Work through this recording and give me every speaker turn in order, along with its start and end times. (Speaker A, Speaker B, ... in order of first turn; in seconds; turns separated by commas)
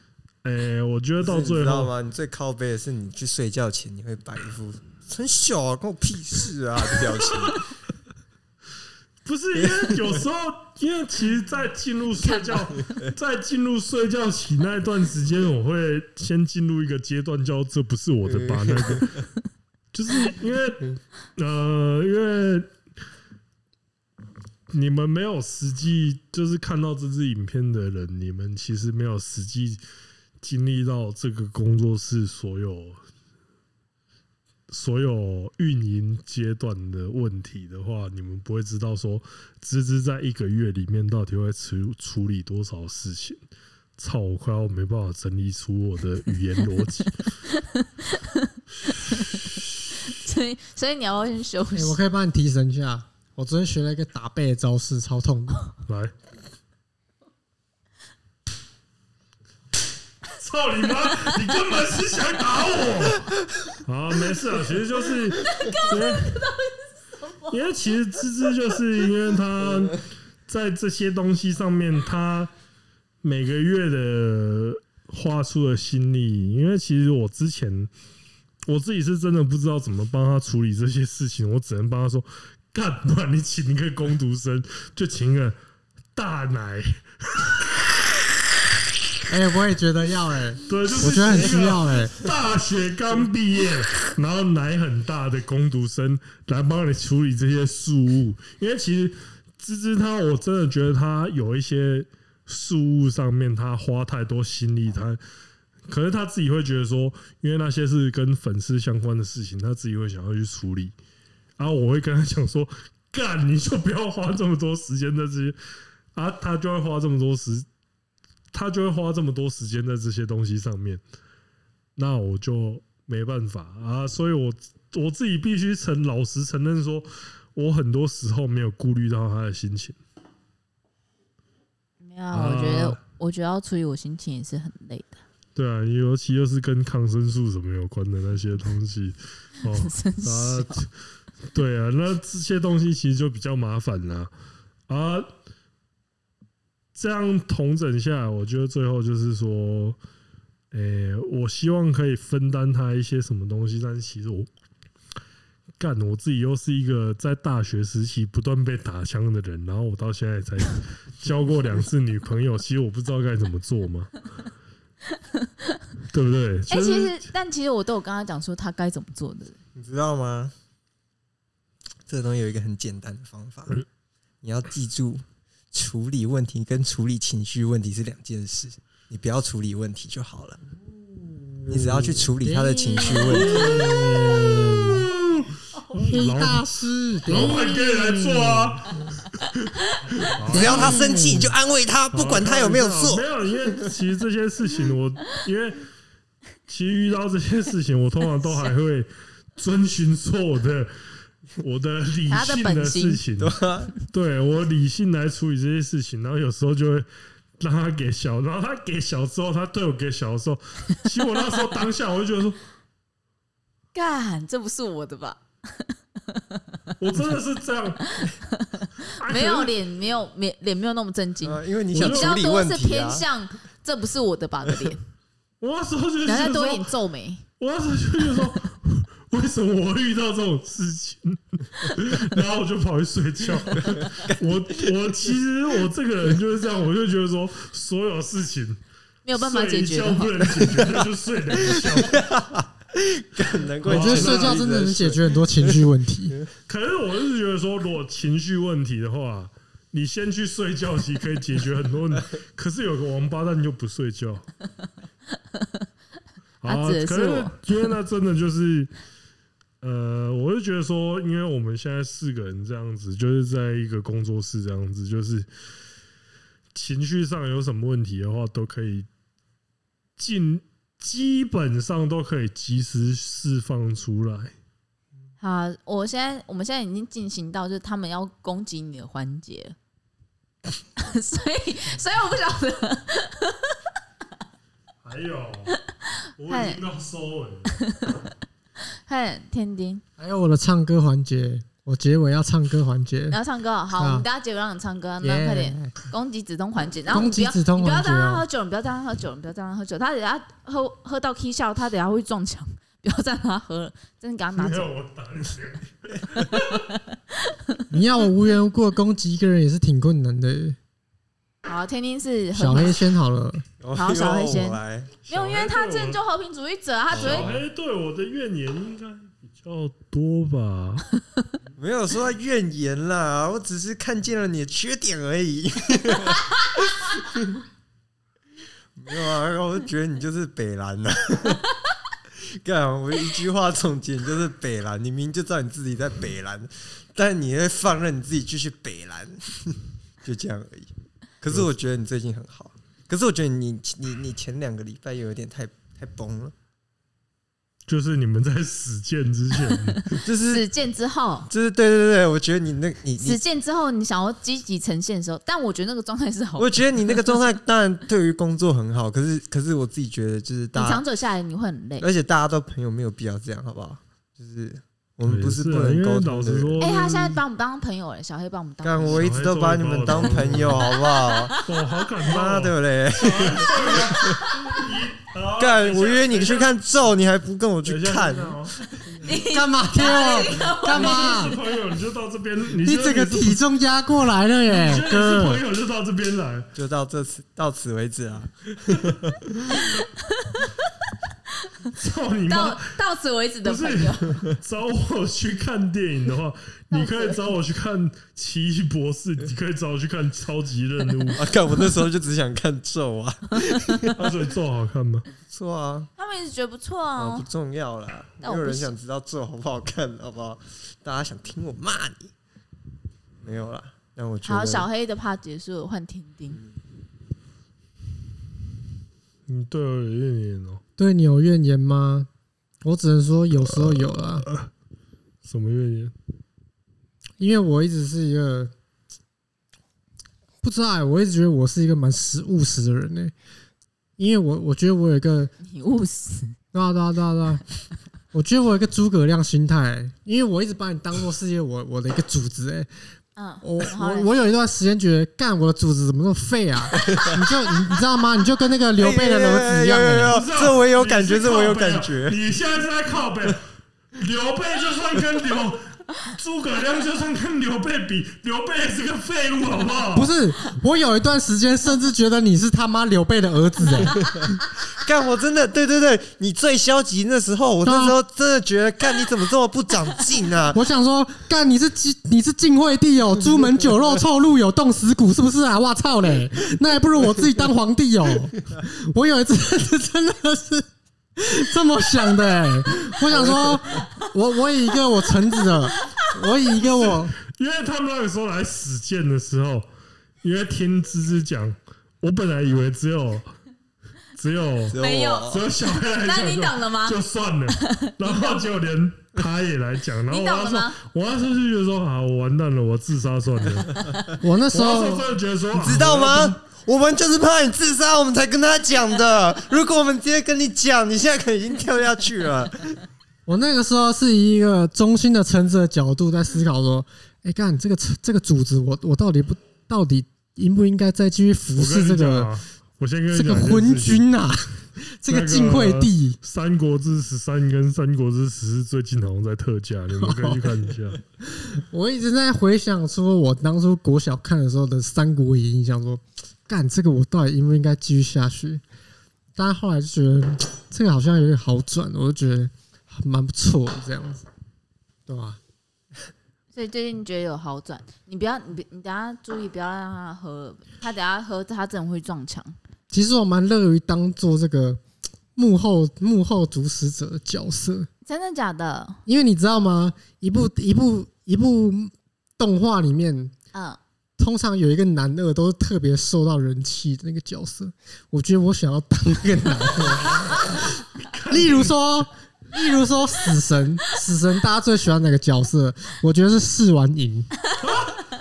Speaker A: 0.4-1.9, Speaker B: 1.2-7.6, Speaker A: 7.3-7.6, Speaker A: 9.2-19.1, Speaker B: 9.6-10.2, Speaker B: 18.3-19.2, Speaker A: 19.9-22.7, Speaker A: 24.7-29.8, Speaker A: 30.4-33.0, Speaker A: 34.7-43.4, Speaker A: 44.0-47.1, Speaker C: 47.5-52.0, Speaker D: 51.7-55.6, Speaker A: 55.9-56.1, Speaker A: 60.3-63.3, Speaker A: 63.8-66.4, Speaker C: 65.6-67.5, Speaker A: 67.5-72.5, Speaker A: 73.2-77.9, Speaker A: 78.7-85.6, Speaker A: 86.1-87.7, Speaker D: 89.3-92.1, Speaker A: 90.7-105.2, Speaker A: 105.9-110.9, Speaker A: 111.6-115.6, Speaker A: 116.2-117.7, Speaker A: 118.5-121.0, Speaker A: 122.0-130.0, Speaker C: 132.0-135.2, Speaker A: 132.3-133.0, Speaker A: 135.6-140.9, Speaker C: 139.7-140.9, Speaker A: 141.5-144.3, Speaker A: 144.9-145.3, Speaker A: 146.9-150.0, Speaker A: 150.7-154.5, Speaker A: 155.8-164.2, Speaker A: 166.1-167.2, Speaker C: 166.7-169.6, Speaker B: 169.8-170.5, Speaker B: 172.1-173.8, Speaker B: 174.4-180.6, Speaker D: 181.4-185.2, Speaker B: 181.7-183.8, Speaker A: 183.2-185.4, Speaker A: 185.9-186.7, Speaker D: 185.9-188.8, Speaker A: 187.3-191.2, Speaker D: 190.5-191.5, Speaker B: 190.5-193.2, Speaker A: 192.1-195.8, Speaker A: 196.7-200.9, Speaker A: 201.6-207.1, Speaker C: 202.3-203.2, Speaker B: 203.4-203.9, Speaker A: 207.6-212.6, Speaker C: 213.9-216.6, Speaker A: 217.0-218.2, Speaker C: 218.2-225.0, Speaker A: 219.2-219.7, Speaker B: 221.4-223.3, Speaker A: 221.9-222.4, Speaker A: 225.6-226.8, Speaker C: 226.3-227.4, Speaker A: 227.6-238.8, Speaker B: 233.7-234.4, Speaker C: 239.2-240.6, Speaker A: 239.3-242.3, Speaker B: 241.8-246.5, Speaker A: 243.8-244.6, Speaker D: 243.8-246.4, Speaker A: 246.7-254.5, Speaker C: 255.6-255.8, Speaker A: 256.6-258.9, Speaker C: 256.7-257.6, Speaker A: 259.8-265.5, Speaker A: 266.7-269.1, Speaker A: 270.2-274.5, Speaker C: 275.4-279.8, Speaker C: 281.0-283.8, Speaker A: 285.0-285.7, Speaker A: 286.4-287.7, Speaker C: 286.4-286.8, Speaker C: 287.8-288.2, Speaker C: 289.1-290.0, Speaker D: 290.2-293.4, Speaker C: 293.3-304.9, Speaker D: 293.9-294.2, Speaker D: 295.2-295.9, Speaker D: 297.1-298.5, Speaker A: 304.6-306.8, Speaker C: 306.7-307.0, Speaker D: 307.9-310.8, Speaker C: 311.6-313.0, Speaker D: 312.6-313.6, Speaker B: 313.8-315.1, Speaker C: 313.9-317.5, Speaker A: 315.2-316.2, Speaker A: 317.1-321.1, Speaker B: 317.1-317.6, Speaker B: 321.8-327.6, Speaker B: 329.0-331.6, Speaker B: 332.4-346.5, Speaker A: 347.9-350.2, Speaker C: 349.7-351.5, Speaker B: 350.2-350.7, Speaker B: 351.5-353.4, Speaker C: 353.2-357.2, Speaker B: 356.6-361.0, Speaker C: 360.8-362.1, Speaker B: 362.0-366.8, Speaker A: 365.3-367.4, Speaker C: 366.8-369.3, Speaker B: 368.8-371.6, Speaker A: 369.1-370.9, Speaker C: 370.9-371.6, Speaker A: 371.6-376.8, Speaker B: 372.2-374.5, Speaker B: 375.6-378.9, Speaker A: 377.9-379.4, Speaker C: 379.2-381.5, Speaker D: 379.4-381.6, Speaker A: 380.9-383.6, Speaker D: 382.8-385.6, Speaker A: 384.7-386.7, Speaker B: 386.7-389.6, Speaker C: 389.8-390.9, Speaker A: 391.9-392.9, Speaker C: 392.5-394.4, Speaker A: 393.6-401.4, Speaker C: 396.9-397.4, Speaker B: 401.3-404.2, Speaker A: 404.1-405.3, Speaker B: 405.4-406.1, Speaker C: 406.2-407.5, Speaker B: 407.2-412.3, Speaker C: 408.4-408.9, Speaker B: 413.4-414.9, Speaker C: 414.4-416.6, Speaker A: 419.5-420.8, Speaker D: 421.0-422.3, Speaker D: 422.8-424.5, Speaker A: 425.4-426.1, Speaker D: 427.4-428.7, Speaker D: 430.6-433.3, Speaker D: 434.2-435.5, Speaker C: 435.6-436.6, Speaker D: 436.7-437.6, Speaker D: 438.3-442.9, Speaker C: 443.4-444.3, Speaker D: 443.6-450.4, Speaker B: 449.0-452.4, Speaker A: 450.3-453.6, Speaker A: 454.2-460.3, Speaker D: 460.1-464.3, Speaker B: 464.9-470.8, Speaker D: 467.8-468.2, Speaker D: 470.7-487.3, Speaker B: 483.3-483.8, Speaker A: 487.1-489.9, Speaker A: 490.4-493.5, Speaker A: 494.4-495.0, Speaker B: 494.9-495.6, Speaker C: 495.0-495.6, Speaker A: 495.5-504.1, Speaker C: 496.1-497.2, Speaker C: 497.7-498.7, Speaker C: 500.3-501.0, Speaker D: 504.4-505.3, Speaker A: 504.7-506.6, Speaker B: 505.7-513.0, Speaker D: 513.5-522.5, Speaker A: 521.8-524.3, Speaker D: 523.3-526.4, Speaker A: 525.3-531.2, Speaker D: 530.1-530.7, Speaker D: 531.4-538.8, Speaker D: 539.6-544.5, Speaker D: 545.3-545.6, Speaker C: 546.7-552.8, Speaker D: 553.1-555.0, Speaker D: 555.6-558.1, Speaker C: 558.3-559.2, Speaker D: 559.3-563.5, Speaker C: 563.7-564.0, Speaker D: 564.4-570.9, Speaker A: 570.4-572.0, Speaker D: 571.5-577.5, Speaker A: 577.8-578.3